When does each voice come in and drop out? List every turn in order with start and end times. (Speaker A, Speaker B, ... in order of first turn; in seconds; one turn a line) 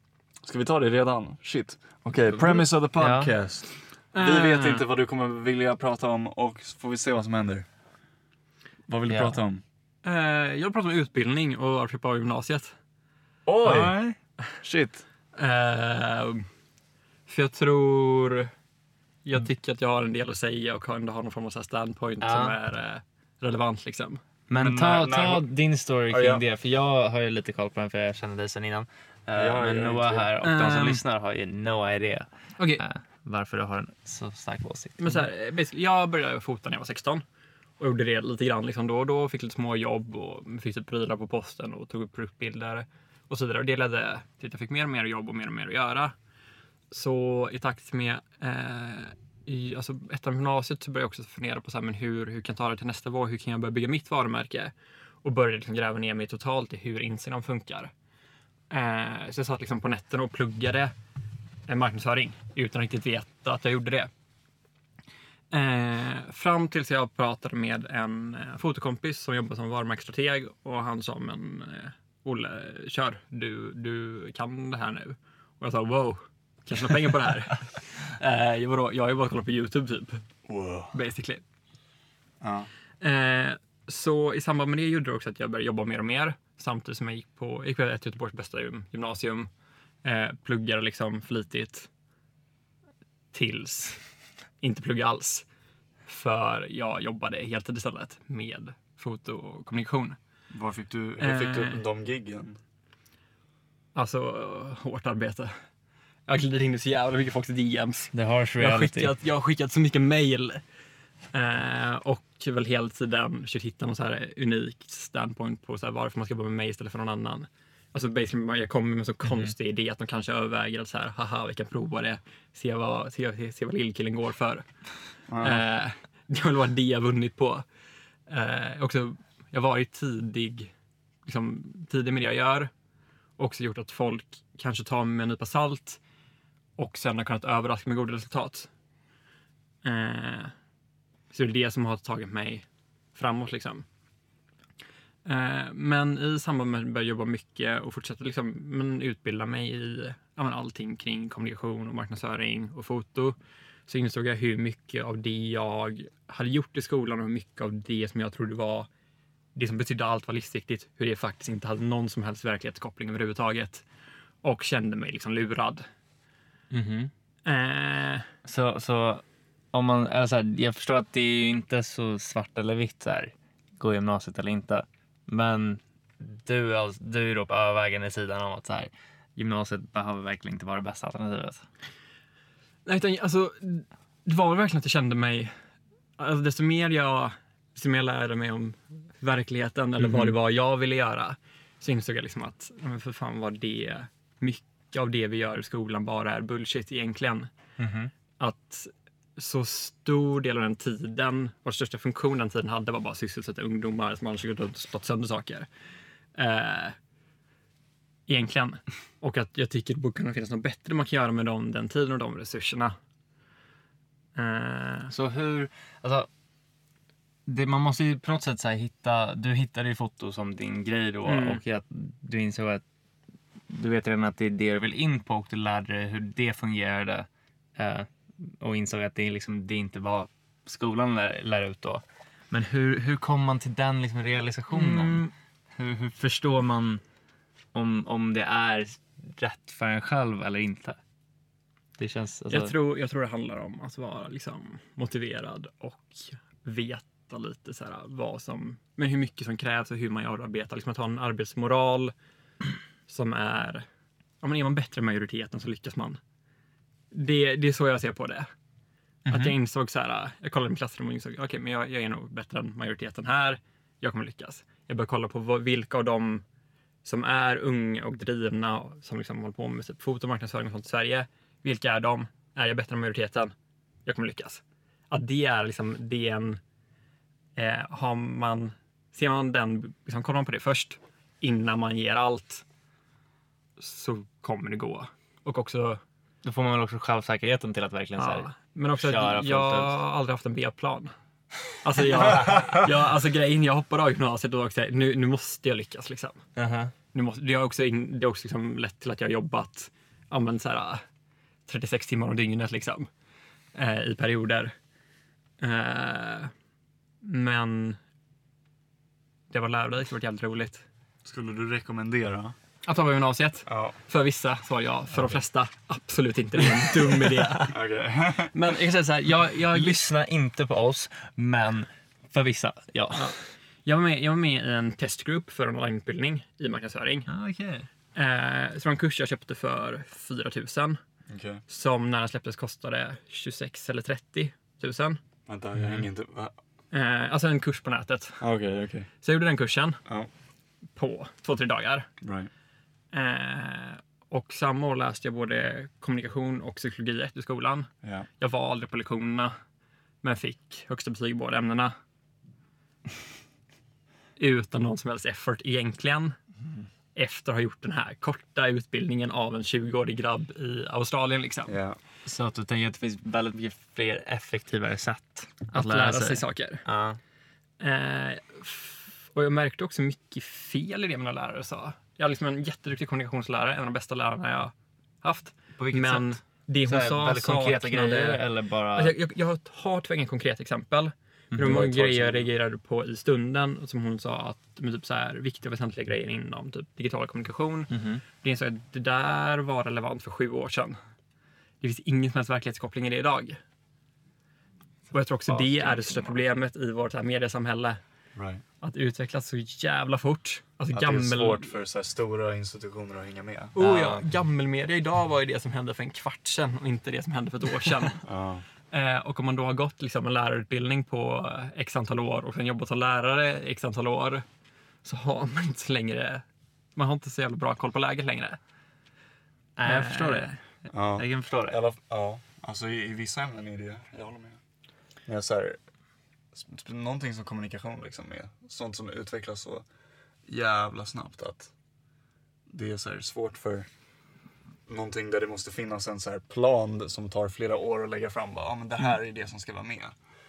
Speaker A: 0.5-7.7
Speaker B: 2.3-3.3
Speaker C: 4.1-4.8
Speaker A: 8.9-9.6
Speaker B: 9.1-9.4
Speaker C: 10.0-12.8
Speaker A: 13.5-14.0
Speaker B: 13.7-14.2
Speaker A: 14.6-15.0
Speaker C: 15.3-16.5
Speaker C: 17.3-18.5
Speaker C: 19.3-24.2
Speaker B: 22.2-22.6
Speaker B: 24.5-35.3
Speaker A: 24.6-25.5
Speaker A: 26.1-26.4
Speaker A: 29.4-30.3
Speaker C: 30.4-31.0
Speaker C: 32.6-32.8
Speaker C: 35.0-37.2
Speaker C: 37.8-46.1
Speaker C: 46.9-57.9
Speaker C: 58.7-60.9
Speaker C: 61.7-64.1
Speaker C: 65.5-80.2
Speaker A: 80.5-80.9
Speaker C: 80.9-81.4
Speaker A: 82.4-82.7
Speaker C: 83.0-89.5
Speaker C: 90.0-91.9
Speaker C: 93.3-94.0
Speaker C: 94.6-95.5
Speaker C: 96.1-100.2
Speaker A: 100.5-102.6
Speaker C: 101.2-101.8
Speaker C: 104.0-105.5
Speaker C: 106.3-110.6
Speaker B: 108.1-109.1
Speaker C: 111.3-124.7
Speaker A: 125.3-125.6
Speaker C: 125.4-127.7
Speaker C: 128.3-130.7
Speaker C: 131.2-132.7
Speaker C: 133.4-136.0
Speaker C: 136.8-138.7
Speaker C: 139.8-140.5
Speaker C: 141.3-143.8
Speaker C: 145.2-153.4
Speaker C: 153.9-158.9
Speaker C: 159.6-163.8
Speaker C: 164.4-165.9
Speaker B: 166.7-167.1
Speaker C: 167.4-168.3
Speaker B: 168.4-181.6
Speaker C: 182.9-185.5
Speaker C: 186.2-197.5
Speaker B: 190.0-190.4
Speaker B: 197.8-198.1
Speaker C: 198.4-205.7
Speaker C: 206.3-207.0
Speaker C: 208.3-212.9
Speaker C: 214.4-215.1
Speaker B: 215.1-216.3
Speaker B: 217.5-222.8
Speaker C: 221.3-221.6
Speaker B: 223.7-237.0
Speaker C: 234.7-235.3
Speaker B: 237.7-241.0
Speaker B: 242.0-242.7
Speaker C: 242.5-252.1
Speaker C: 253.1-253.8
Speaker C: 254.4-256.2
Speaker C: 257.1-258.5
Speaker B: 259.3-259.6
Speaker C: 259.3-266.4
Speaker C: 267.1-273.5
Speaker C: 274.1-276.6
Speaker C: 277.6-282.6
Speaker C: 283.8-286.0
Speaker B: 286.4-290.0
Speaker C: 288.2-291.1
Speaker C: 291.8-296.4
Speaker B: 296.6-296.9
Speaker C: 297.1-301.0
Speaker C: 301.7-303.1
Speaker C: 303.8-304.7
Speaker C: 305.6-306.5
Speaker C: 307.2-308.0
Speaker C: 309.5-310.9
Speaker A: 311.2-312.6
Speaker C: 312.9-317.8
Speaker A: 313.7-314.0
Speaker A: 317.7-318.5
Speaker C: 318.5-320.0
Speaker B: 319.7-323.3
Speaker C: 323.1-327.3
Speaker B: 327.3-327.9
Speaker C: 328.1-331.0
Speaker A: 331.3-331.6
Speaker C: 331.7-335.2
Speaker A: 335.5-336.5
Speaker B: 335.8-336.1
Speaker C: 336.9-338.4
Speaker A: 338.4-339.1
Speaker C: 339.2-340.0
Speaker C: 341.0-342.1
Speaker A: 342.2-342.5
Speaker C: 343.1-349.5
Speaker C: 350.2-351.9
Speaker C: 354.4-356.4
Speaker A: 356.6-356.9
Speaker C: 357.1-361.8
Speaker A: 361.7-362.0
Speaker B: 362.3-367.2
Speaker C: 365.7-366.8
Speaker C: 367.8-378.4
Speaker B: 375.8-379.2
Speaker C: 378.9-391.0
Speaker B: 381.5-382.0
Speaker A: 381.6-382.5
Speaker B: 387.9-388.2
Speaker C: 391.8-393.6
Speaker C: 395.1-398.0
Speaker A: 395.5-396.4
Speaker A: 398.4-398.6
Speaker C: 398.8-401.7
Speaker A: 400.9-403.7
Speaker C: 403.7-408.2
Speaker B: 403.8-404.2
Speaker A: 408.2-408.6
Speaker C: 408.9-414.4
Speaker C: 415.0-416.4
Speaker C: 417.0-418.6
Speaker B: 419.8-420.5
Speaker C: 419.9-420.6
Speaker A: 420.9-424.6
Speaker B: 421.2-421.8
Speaker A: 425.3-425.8
Speaker A: 426.5-429.9
Speaker A: 430.5-431.7
Speaker A: 432.7-433.9
Speaker A: 434.9-440.1